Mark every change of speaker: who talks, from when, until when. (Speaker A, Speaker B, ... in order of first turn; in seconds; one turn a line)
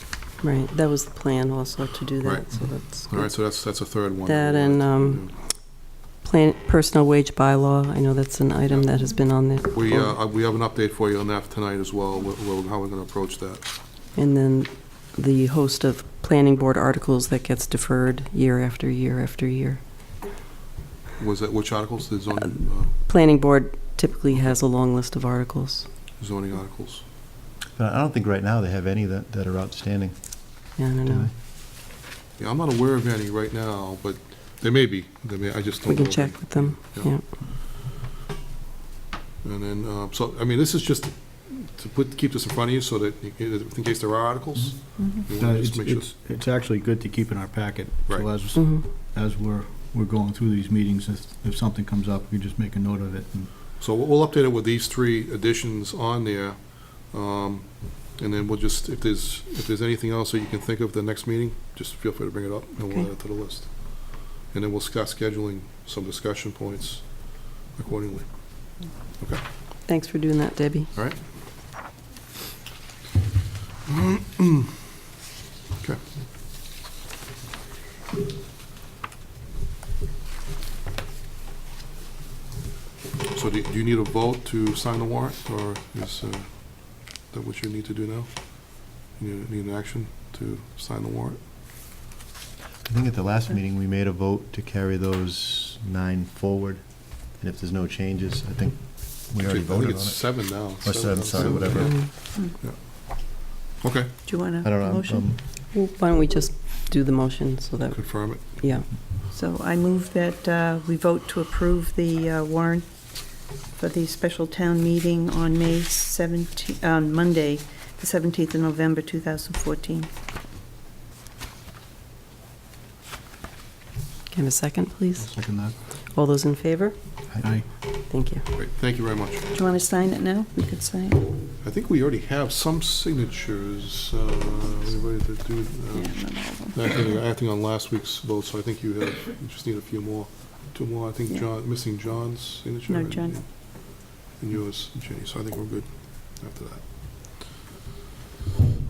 Speaker A: 0.4-10.2
Speaker B: 2.2-5.4
Speaker B: 8.7-13.8
Speaker A: 14.2-20.1
Speaker B: 21.2-22.9
Speaker A: 22.5-25.9
Speaker B: 26.2-27.0
Speaker C: 27.7-31.3
Speaker A: 30.8-31.3
Speaker B: 32.4-37.3
Speaker A: 35.9-37.2
Speaker B: 39.4-46.1
Speaker D: 45.0-45.3
Speaker E: 45.4-53.5
Speaker A: 48.5-48.9
Speaker B: 53.8-69.5
Speaker A: 69.8-70.9
Speaker B: 70.9-71.3
Speaker B: 73.9-74.5
Speaker B: 83.3-91.4
Speaker C: 92.8-102.1
Speaker B: 99.4-102.8
Speaker A: 101.8-102.1
Speaker B: 103.8-104.1
Speaker D: 104.3-105.3
Speaker C: 104.5-105.4
Speaker A: 105.7-108.9
Speaker B: 107.9-108.6
Speaker D: 109.3-120.1
Speaker A: 124.3-127.4
Speaker E: 125.2-125.8
Speaker E: 127.4-127.7
Speaker A: 128.1-128.5
Speaker B: 128.5-129.5
Speaker D: 129.5-131.4
Speaker B: 131.6-147.5
Speaker D: 135.9-136.9
Speaker D: 142.9-143.7